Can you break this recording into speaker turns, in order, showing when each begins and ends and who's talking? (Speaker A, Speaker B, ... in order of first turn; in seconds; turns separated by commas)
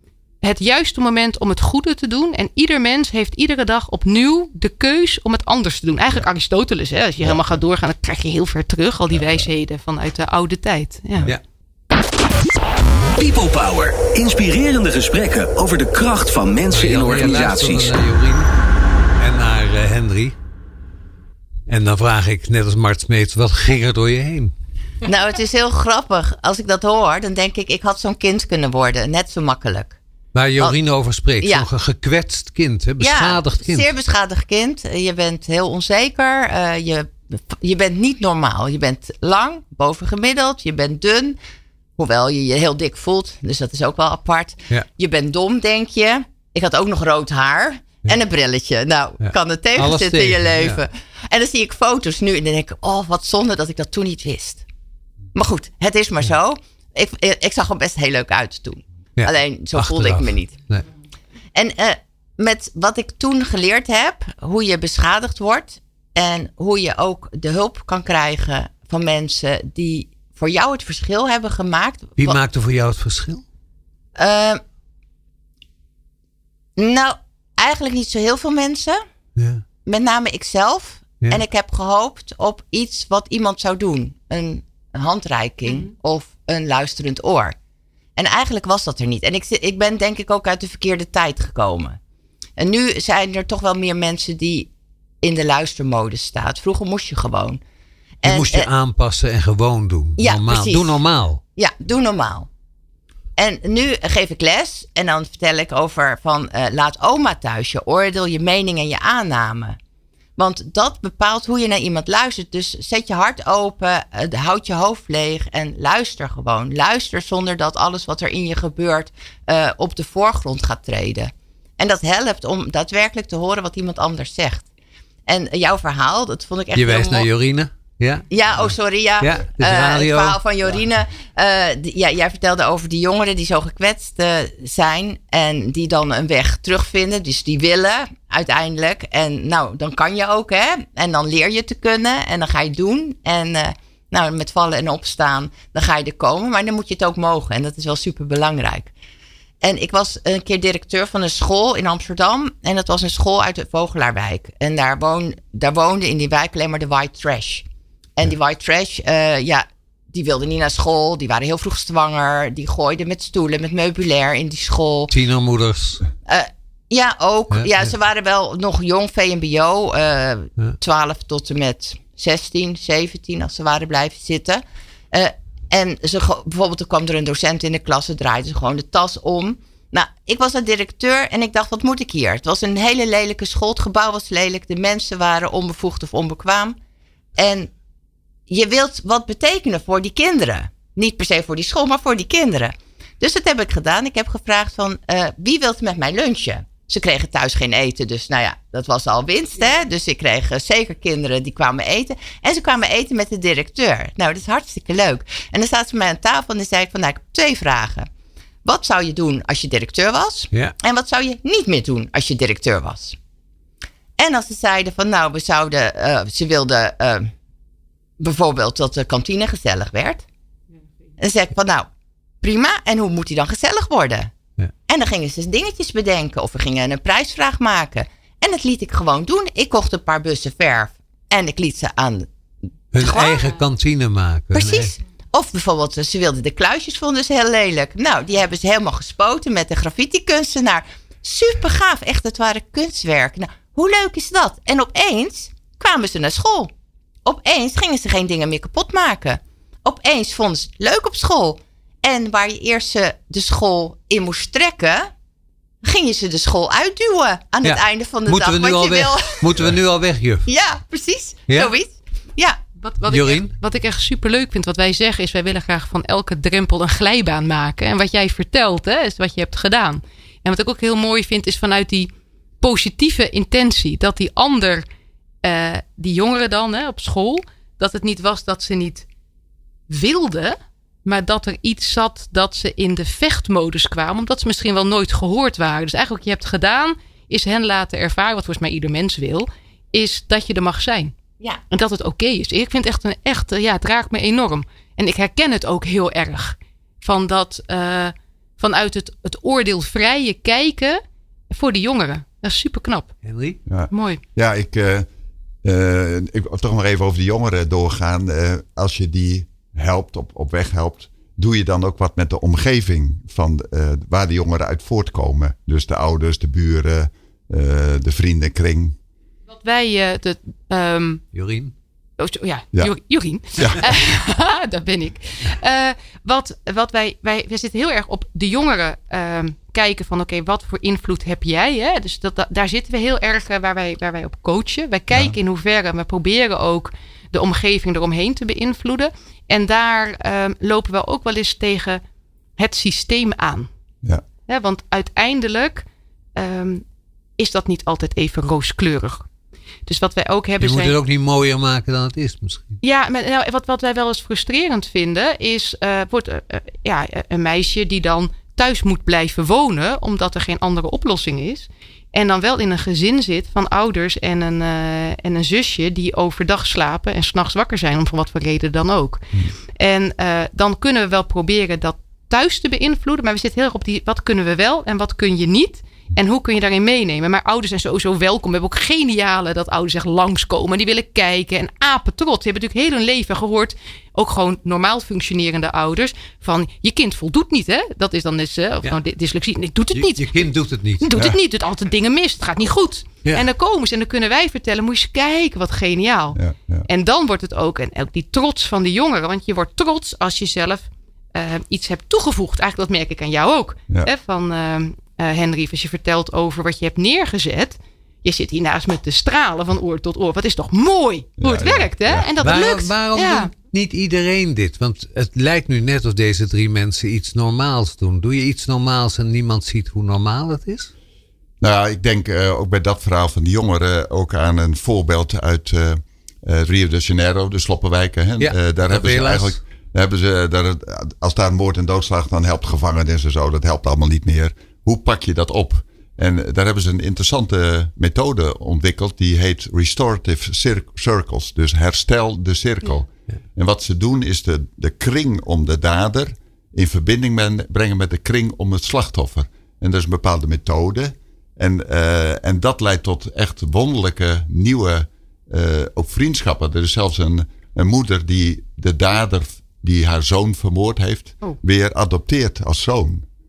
Speaker A: 0.4-11.3, Speaker B: 7.2-7.6, Speaker B: 9.1-9.4, Speaker C: 13.2-18.0, Speaker D: 16.7-18.5, Speaker D: 19.2-20.4, Speaker D: 21.7-24.5, Speaker E: 25.0-29.9, Speaker D: 30.3-33.9, Speaker E: 31.4-31.7, Speaker E: 33.0-41.4, Speaker E: 42.0-54.6, Speaker D: 49.2-50.8, Speaker E: 55.3-60.6, Speaker D: 59.2-60.8, Speaker E: 61.5-72.4, Speaker D: 72.2-73.4, Speaker E: 74.2-74.6, Speaker E: 76.8-79.0, Speaker D: 79.3-79.6, Speaker E: 79.8-87.5, Speaker E: 88.2-92.0, Speaker E: 92.6-94.7, Speaker E: 95.2-97.6, Speaker E: 98.2-98.7, Speaker D: 98.2-101.4, Speaker E: 100.2-101.0, Speaker E: 101.5-102.5, Speaker E: 103.4-109.8, Speaker E: 110.4-124.7, Speaker E: 125.3-127.3, Speaker D: 126.7-128.2, Speaker E: 128.3-148.9, Speaker D: 129.2-130.4, Speaker E: 149.6-157.7, Speaker E: 158.2-165.1, Speaker D: 165.1-166.1, Speaker E: 166.2-186.8, Speaker D: 167.5-167.9, Speaker E: 187.4-187.7, Speaker E: 188.5-208.1, Speaker E: 208.6-213.2, Speaker E: 214.2-217.3, Speaker E: 218.2-220.2, Speaker E: 221.2-221.9, Speaker E: 222.4-224.3, Speaker E: 224.9-232.3, Speaker D: 232.9-234.9, Speaker E: 233.0-233.5, Speaker E: 234.5-246.7, Speaker E: 247.2-255.1, Speaker E: 255.8-259.6, Speaker D: 257.6-260.5, Speaker E: 260.4-262.6, Speaker A: 262.8-274.8, Speaker D: 263.1-263.5, Speaker A: 275.4-279.1, Speaker A: 279.9-291.1, Speaker A: 291.7-303.1, Speaker D: 303.2-303.6, Speaker B: 303.7-305.1, Speaker A: 303.9-304.2, Speaker B: 305.6-318.9, Speaker A: 319.5-321.2, Speaker D: 321.3-321.7, Speaker A: 322.2-342.0, Speaker B: 323.5-323.8, Speaker A: 342.6-343.7, Speaker A: 344.4-345.8, Speaker A: 346.4-346.8, Speaker A: 347.4-349.2, Speaker A: 349.9-350.9, Speaker D: 350.6-352.8, Speaker A: 352.8-413.5, Speaker D: 389.9-391.1, Speaker B: 396.3-396.9, Speaker B: 411.4-412.5, Speaker D: 412.4-420.9, Speaker B: 421.6-463.2, Speaker D: 428.4-429.6